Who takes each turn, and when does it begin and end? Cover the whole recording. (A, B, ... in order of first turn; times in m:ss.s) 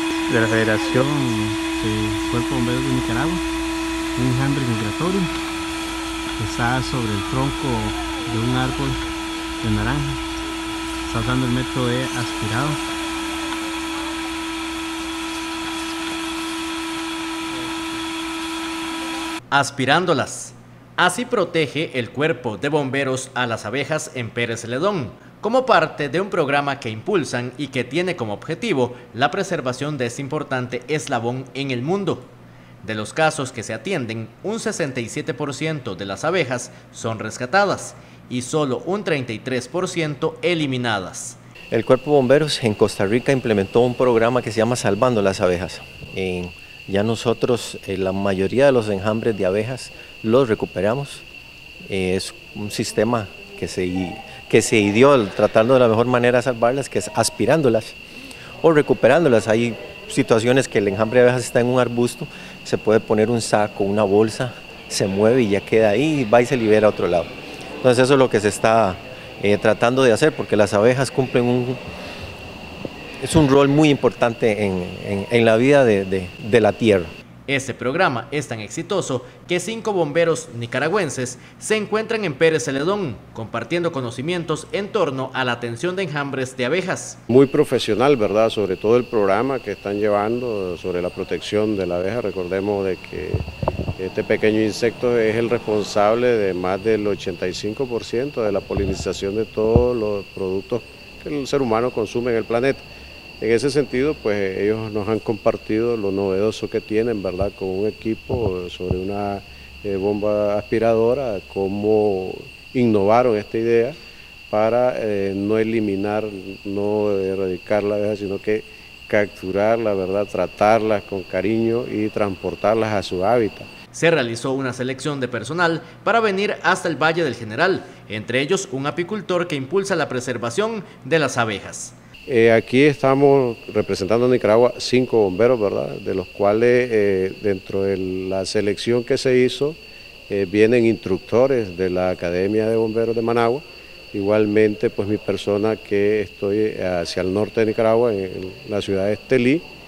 0:00.3-0:03.4 A
0:04.2-0:05.3 A
0:06.4-0:09.0 A
0:09.6-0:10.2 A
0:11.0-0:12.8 A
0:19.5-0:32.3 B
0:32.8-0:41.4 B
0:41.7-0:51.2 C
0:51.9-0:58.0 C
0:58.6-1:07.3 C
1:07.8-1:11.8 C
1:13.2-1:17.1 C
1:17.5-1:27.2 B
1:27.3-1:33.5 D
1:34.0-1:42.8 D
1:43.4-1:54.0 D
1:54.5-2:03.7 D
2:03.9-2:12.0 B
2:12.3-2:19.8 D
2:20.3-2:29.6 D